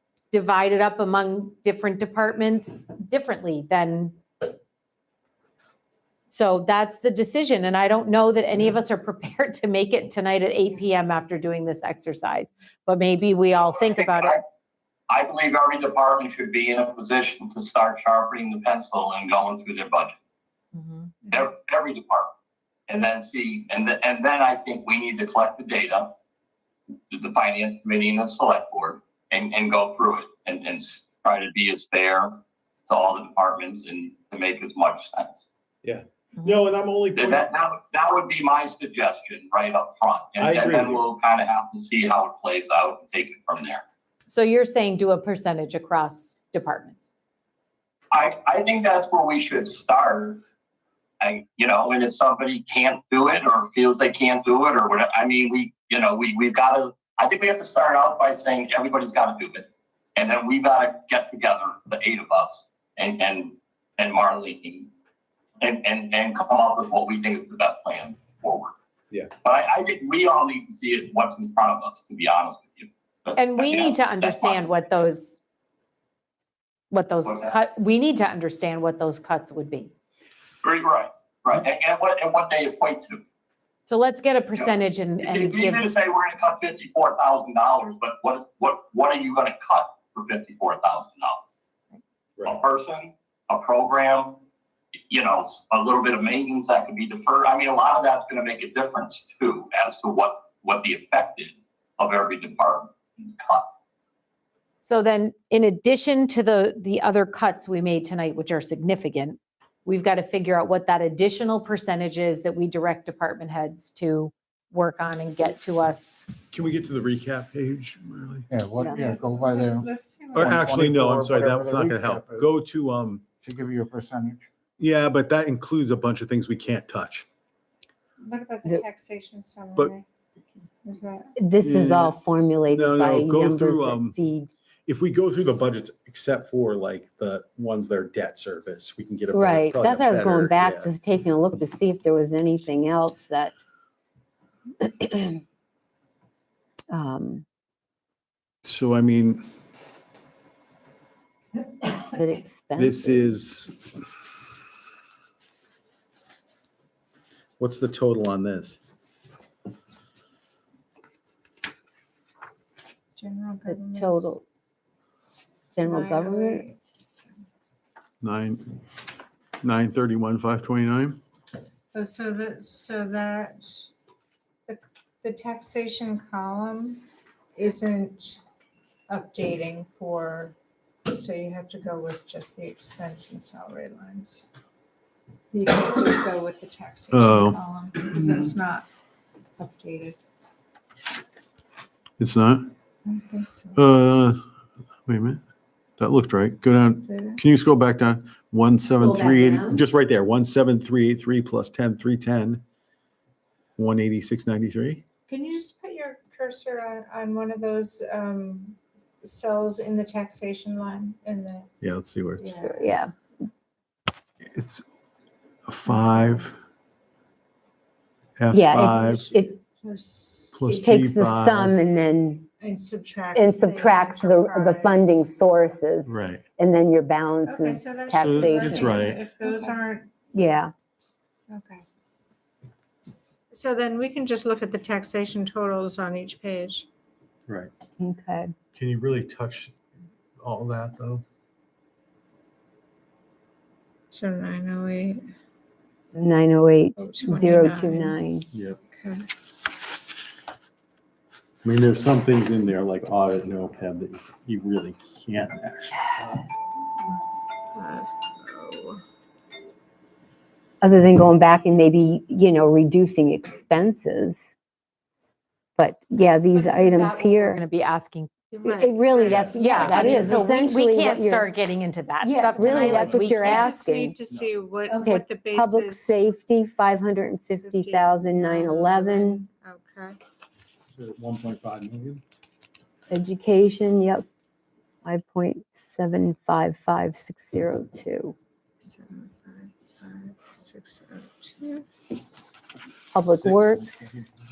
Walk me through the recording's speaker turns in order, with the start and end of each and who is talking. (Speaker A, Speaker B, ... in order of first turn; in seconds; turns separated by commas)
Speaker A: 0.3-4.2, Speaker A: 6.3-14.4, Speaker B: 13.9-14.4, Speaker B: 15.1-20.2, Speaker A: 20.7-21.1, Speaker B: 21.3-22.3, Speaker B: 22.9-26.1, Speaker B: 27.1-35.4, Speaker C: 35.8-37.5, Speaker B: 37.1-43.8, Speaker C: 40.4-41.0, Speaker A: 44.3-47.1, Speaker B: 48.1-50.4, Speaker B: 51.2-64.9, Speaker B: 65.6-68.7, Speaker B: 69.4-75.1, Speaker A: 73.3-75.4, Speaker A: 76.9-79.9, Speaker B: 77.2-77.6, Speaker B: 80.6-83.2, Speaker A: 83.9-85.9, Speaker B: 84.6-91.4, Speaker B: 92.4-94.4, Speaker B: 95.1-103.7, Speaker A: 104.8-116.3, Speaker C: 116.5-118.5, Speaker D: 118.5-119.8, Speaker E: 118.8-119.1, Speaker F: 118.9-120.5, Speaker C: 120.3-123.2, Speaker D: 120.4-122.5, Speaker D: 123.4-124.4, Speaker C: 124.8-127.2, Speaker F: 128.2-130.0, Speaker F: 130.8-131.3, Speaker E: 131.4-134.5, Speaker C: 131.6-132.2, Speaker C: 132.7-134.2, Speaker C: 134.9-140.9, Speaker E: 139.3-143.5, Speaker E: 144.8-145.4, Speaker E: 146.9-147.4, Speaker C: 148.6-149.4, Speaker E: 152.0-153.3, Speaker C: 152.8-153.7, Speaker C: 157.6-158.8, Speaker F: 163.2-164.3, Speaker E: 163.7-164.4, Speaker E: 165.8-166.6, Speaker F: 165.8-167.3, Speaker C: 168.2-168.6, Speaker C: 169.6-171.2, Speaker F: 171.9-173.9, Speaker F: 174.7-178.4, Speaker F: 179.1-180.5, Speaker F: 181.1-184.5, Speaker F: 185.5-188.8, Speaker C: 187.1-187.6, Speaker F: 189.6-190.2, Speaker C: 192.2-192.7, Speaker F: 193.0-193.8, Speaker C: 193.7-194.4, Speaker C: 195.1-195.4, Speaker C: 196.0-202.6, Speaker F: 197.1-197.4, Speaker E: 199.0-199.8, Speaker C: 203.8-205.0, Speaker F: 205.3-211.7, Speaker C: 211.8-212.5, Speaker F: 212.4-212.9, Speaker E: 212.6-213.1, Speaker C: 214.5-214.8, Speaker C: 215.7-216.5, Speaker F: 216.0-216.4, Speaker C: 218.4-219.2, Speaker E: 218.5-219.5, Speaker F: 219.3-220.8, Speaker C: 220.5-221.8, Speaker E: 220.7-222.5, Speaker F: 222.6-225.2, Speaker E: 223.3-229.1, Speaker C: 226.1-226.4, Speaker F: 227.4-230.1, Speaker C: 228.1-229.2, Speaker E: 230.3-230.7, Speaker F: 231.5-231.8, Speaker F: 233.5-236.9, Speaker E: 238.0-238.5, Speaker C: 238.7-239.7, Speaker C: 240.4-241.2, Speaker F: 244.1-245.2, Speaker E: 246.1-248.5, Speaker F: 247.0-248.2, Speaker C: 248.5-248.8, Speaker F: 248.9-249.3, Speaker C: 251.6-256.4, Speaker F: 257.7-259.0, Speaker E: 260.8-264.5, Speaker E: 265.8-267.6, Speaker A: 266.5-268.3, Speaker F: 268.5-270.5, Speaker E: 268.6-271.5, Speaker C: 269.2-270.2, Speaker A: 269.5-273.7, Speaker E: 272.2-274.1, Speaker C: 272.6-273.4, Speaker F: 272.6-276.1, Speaker E: 274.9-279.4, Speaker F: 277.6-280.2, Speaker C: 280.9-282.2, Speaker E: 283.1-284.2, Speaker E: 285.0-288.4, Speaker F: 288.8-291.9, Speaker E: 293.1-294.3, Speaker C: 293.4-294.3